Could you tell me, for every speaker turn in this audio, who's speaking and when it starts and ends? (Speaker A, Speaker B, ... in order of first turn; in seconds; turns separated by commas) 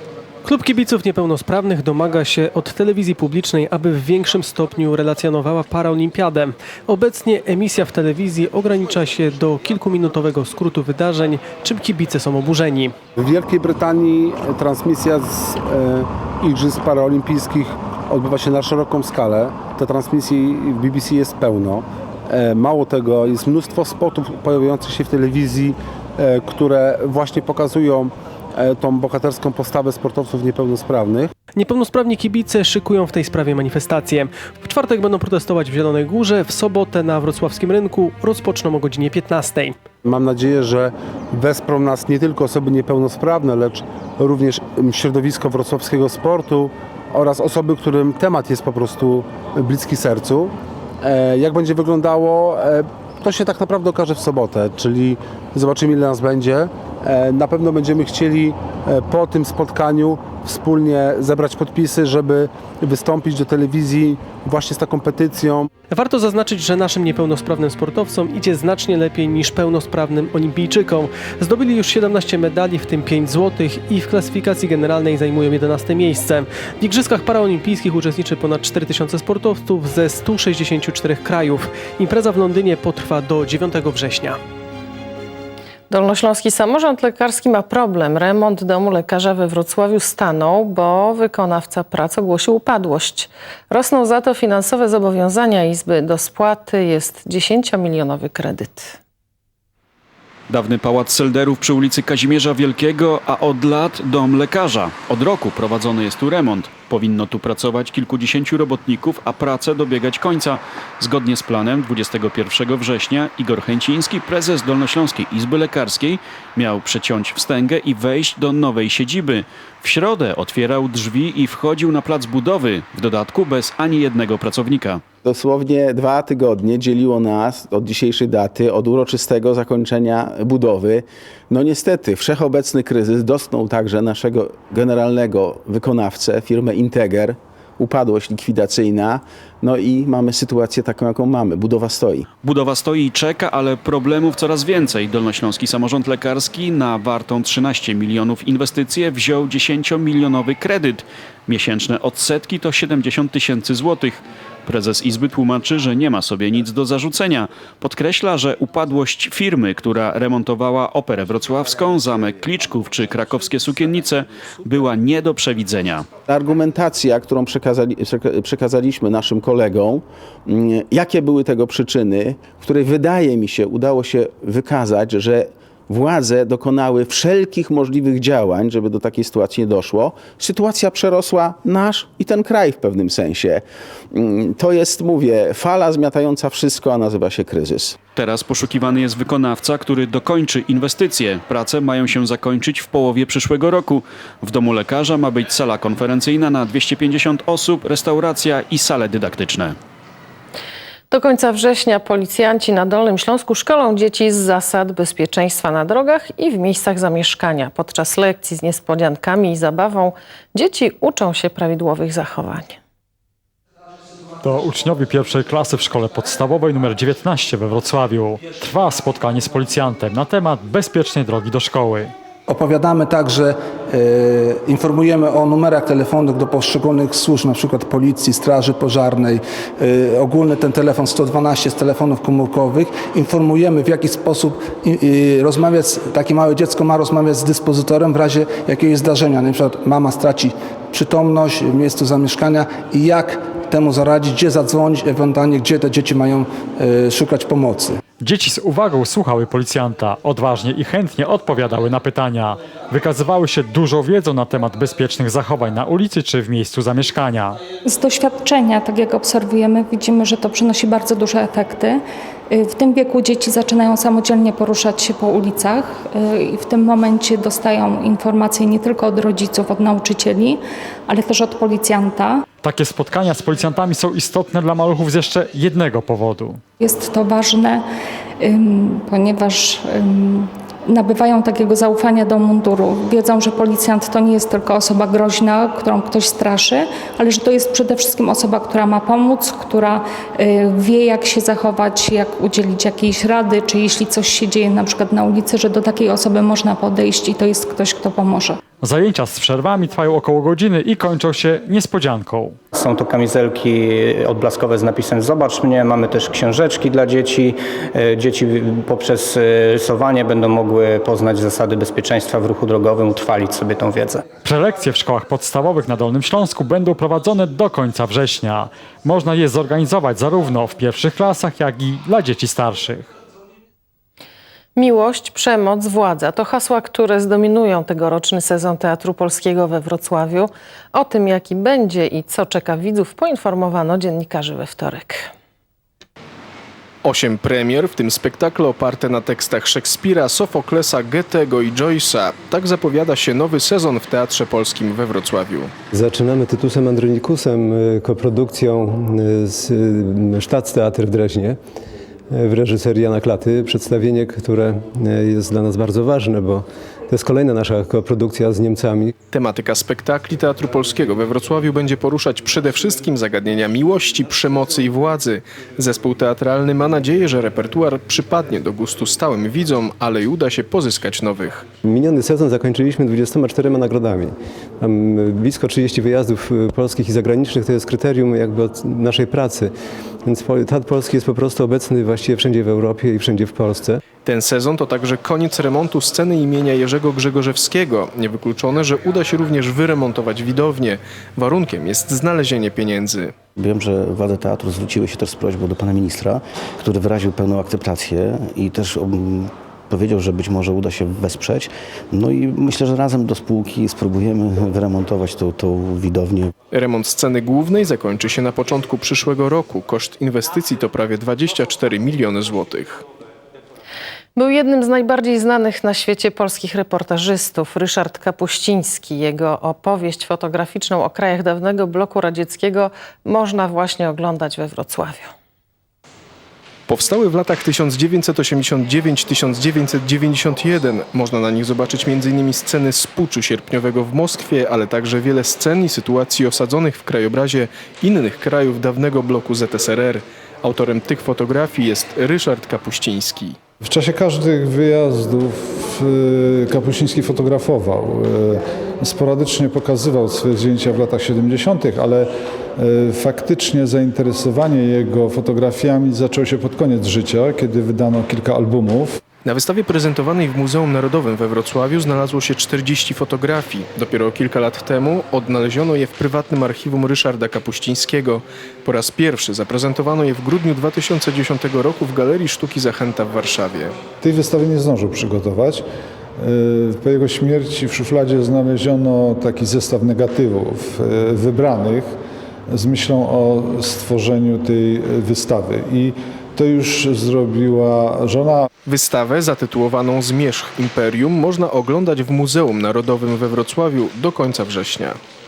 Speaker A: 0.5-12.9, Speaker B: 13.2-31.3, Speaker A: 31.6-39.8, Speaker B: 40.0-50.5, Speaker B: 51.0-65.6, Speaker A: 65.9-84.4, Speaker C: 85.9-99.0, Speaker D: 100.5-125.0, Speaker E: 125.2-142.3, Speaker D: 142.4-166.1, Speaker E: 166.3-188.0, Speaker D: 188.2-199.8, Speaker C: 201.1-212.8, Speaker F: 214.4-222.1, Speaker G: 222.5-248.0, Speaker F: 248.2-257.6, Speaker H: 257.8-272.4, Speaker F: 272.6-276.6, Speaker H: 276.8-277.9, Speaker H: 278.4-298.6, Speaker F: 298.8-302.6, Speaker I: 302.7-314.2, Speaker F: 314.4-323.1, Speaker C: 324.8-335.3, Speaker J: 337.0-345.7, Speaker A: 345.9-351.6, Speaker A: 352.3-359.1, Speaker J: 359.3-371.7, Speaker A: 371.9-379.7, Speaker A: 380.2-384.0, Speaker J: 384.2-393.3, Speaker K: 393.6-406.5, Speaker J: 406.7-413.0, Speaker C: 414.4-425.3, Speaker J: 426.9-443.6, Speaker L: 443.8-446.1, Speaker F: 444.4-446.9, Speaker L: 446.6-448.0, Speaker F: 447.4-448.6, Speaker L: 449.0-452.2, Speaker F: 449.2-450.6, Speaker L: 452.8-459.1, Speaker F: 454.1-455.4, Speaker F: 457.5-457.9, Speaker F: 458.5-458.9, Speaker J: 459.4-474.0, Speaker L: 474.2-475.8, Speaker L: 476.4-482.1, Speaker F: 476.6-477.1, Speaker F: 477.7-478.0, Speaker F: 480.8-481.3, Speaker L: 482.7-488.6, Speaker J: 488.9-495.2